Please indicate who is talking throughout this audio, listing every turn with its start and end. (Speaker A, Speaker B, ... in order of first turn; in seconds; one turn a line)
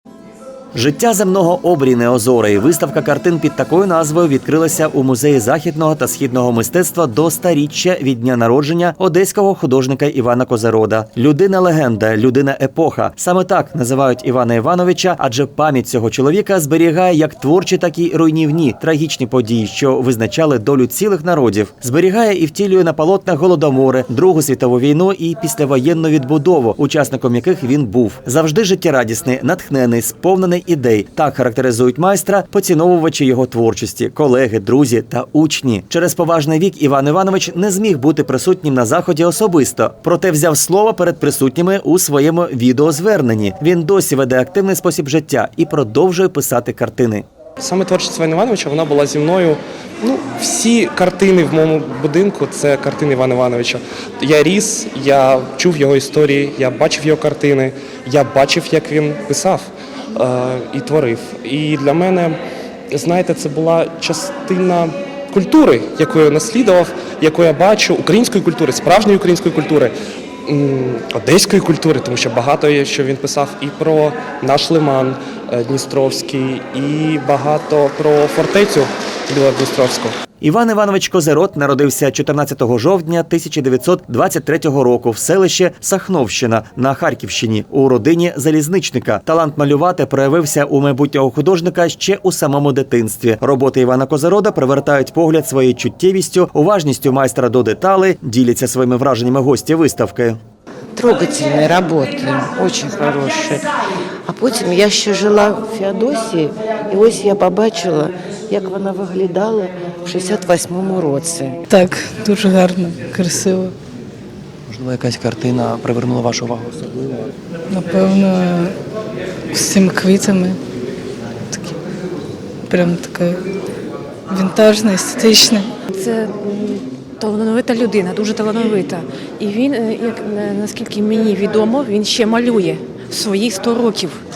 Speaker A: 0.7-47.3
Speaker B: 47.6-62.4
Speaker B: 62.9-69.9
Speaker B: 70.5-80.2
Speaker A: 80.4-100.4
Speaker C: 101.0-103.7
Speaker C: 104.2-111.6
Speaker D: 111.7-113.8
Speaker E: 114.7-117.3
Speaker D: 117.7-118.8
Speaker D: 119.5-120.6
Speaker D: 121.5-121.8
Speaker D: 122.7-123.4
Speaker D: 124.3-125.7
Speaker F: 125.9-134.2